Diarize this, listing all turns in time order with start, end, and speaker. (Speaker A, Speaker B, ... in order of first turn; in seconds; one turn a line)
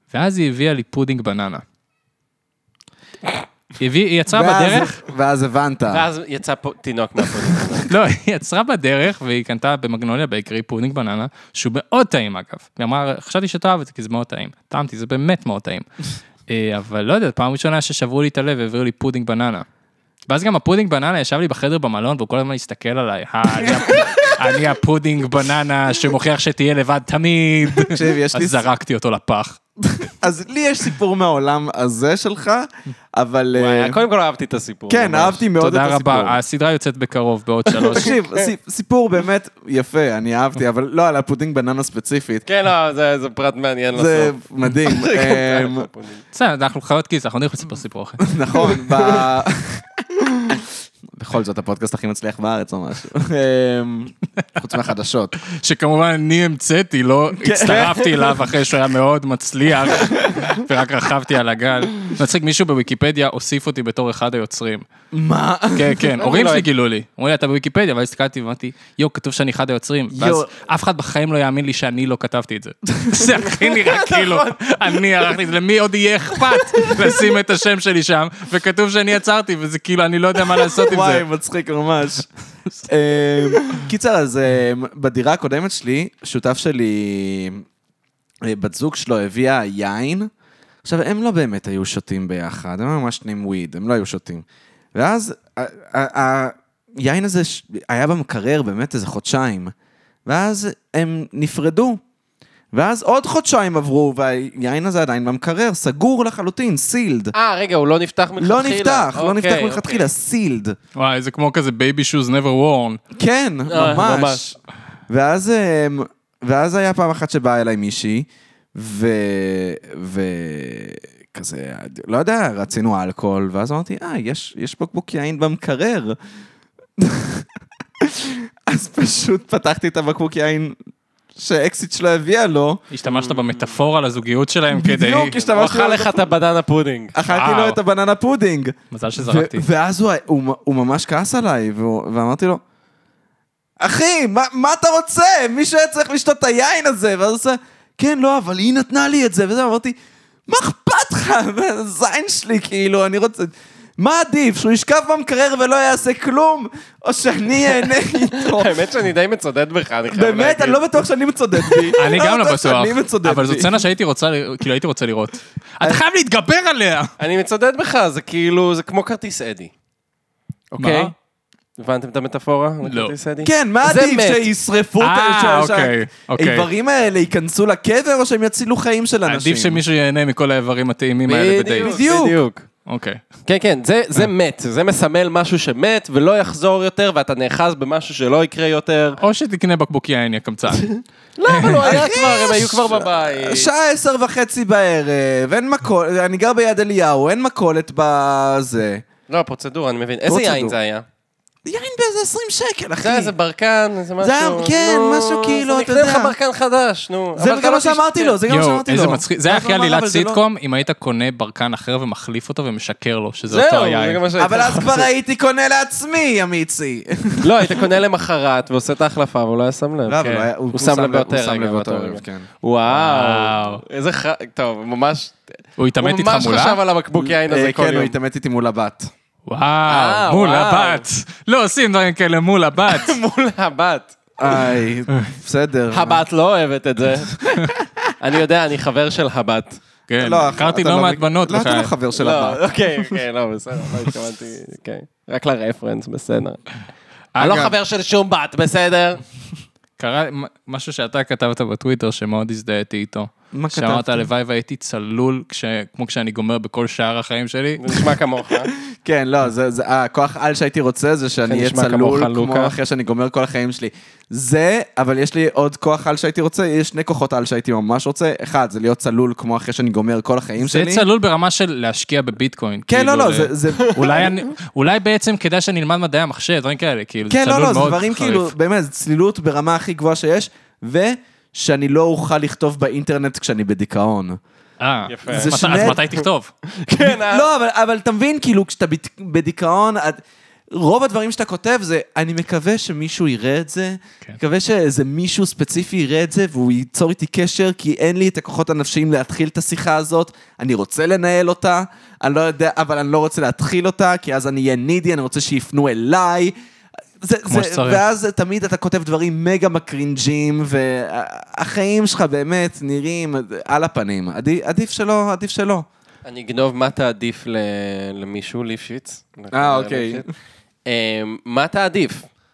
Speaker A: 0.1-1.6
Speaker A: 3.8-5.0
Speaker B: 4.3-6.0
Speaker C: 5.9-7.9
Speaker A: 7.9-15.9
Speaker A: 16.5-19.7
Speaker A: 20.3-29.6
Speaker B: 23.8-24.1
Speaker B: 27.8-28.7
Speaker B: 29.8-34.0
Speaker C: 33.5-35.5
Speaker B: 34.9-36.4
Speaker A: 35.6-38.2
Speaker C: 37.7-38.5
Speaker B: 37.9-42.5
Speaker C: 42.5-46.2
Speaker B: 44.0-45.9
Speaker A: 46.3-48.3
Speaker B: 48.2-49.9
Speaker C: 48.6-49.2
Speaker B: 51.1-55.4
Speaker A: 55.4-64.9
Speaker B: 57.3-58.4
Speaker B: 65.1-66.1
Speaker A: 65.7-81.3
Speaker C: 66.2-66.7
Speaker B: 70.1-70.5
Speaker C: 73.5-75.3
Speaker C: 76.6-77.1
Speaker B: 80.8-82.3
Speaker B: 82.9-87.6
Speaker B: 88.4-90.3
Speaker B: 90.8-99.7
Speaker B: 100.3-102.0
Speaker B: 102.7-107.3
Speaker C: 107.3-110.1
Speaker B: 108.4-110.8
Speaker A: 111.0-113.0
Speaker B: 113.1-114.6
Speaker C: 113.7-114.4
Speaker B: 115.1-126.2
Speaker B: 127.0-127.5
Speaker B: 128.0-130.8
Speaker B: 131.3-132.8
Speaker A: 132.9-135.4
Speaker C: 133.1-133.8
Speaker B: 134.7-136.3
Speaker C: 135.4-137.2
Speaker B: 137.1-142.6
Speaker A: 137.3-137.8
Speaker A: 138.9-139.6
Speaker B: 143.8-149.9
Speaker B: 150.5-158.8
Speaker C: 158.3-161.0
Speaker B: 160.1-163.8
Speaker C: 161.6-161.9
Speaker A: 162.0-167.1
Speaker C: 167.2-169.7
Speaker C: 170.7-171.1
Speaker A: 170.8-171.1
Speaker C: 171.8-174.4
Speaker A: 172.8-173.1
Speaker B: 173.4-179.8
Speaker A: 175.0-176.7
Speaker A: 179.3-182.0
Speaker C: 181.3-182.6
Speaker B: 181.8-182.4
Speaker A: 182.9-183.2
Speaker C: 183.4-189.2
Speaker A: 189.2-191.0
Speaker C: 190.9-193.7
Speaker A: 191.5-192.0
Speaker B: 191.8-199.1
Speaker C: 199.3-201.1
Speaker B: 200.3-200.8
Speaker B: 201.6-203.3
Speaker C: 203.0-208.4
Speaker B: 204.2-206.3
Speaker B: 207.4-210.4
Speaker A: 208.5-214.2
Speaker C: 213.5-215.1
Speaker B: 214.4-217.7
Speaker C: 217.4-220.2
Speaker B: 220.1-222.5
Speaker A: 220.2-220.5
Speaker C: 220.7-228.1
Speaker A: 222.9-223.8
Speaker A: 225.8-226.8
Speaker B: 227.2-229.1
Speaker A: 229.5-233.2
Speaker C: 229.9-231.1
Speaker C: 232.9-234.2
Speaker B: 234.4-236.2
Speaker C: 235.9-237.4
Speaker C: 238.2-239.8
Speaker A: 240.1-241.9
Speaker B: 240.2-243.2
Speaker C: 242.2-246.6
Speaker A: 247.3-247.7
Speaker C: 247.4-249.2
Speaker A: 250.0-258.1
Speaker B: 253.5-254.3
Speaker C: 257.8-258.7
Speaker B: 258.9-271.1
Speaker C: 261.4-262.8
Speaker A: 270.6-278.5
Speaker B: 272.9-274.3
Speaker C: 273.8-274.3
Speaker B: 277.3-284.4
Speaker A: 284.8-286.5
Speaker C: 285.1-286.2
Speaker B: 285.3-286.0
Speaker C: 286.8-287.5
Speaker B: 287.0-306.5
Speaker B: 307.2-315.9
Speaker A: 307.5-308.0
Speaker C: 316.2-320.3
Speaker B: 319.5-320.3
Speaker C: 320.9-322.3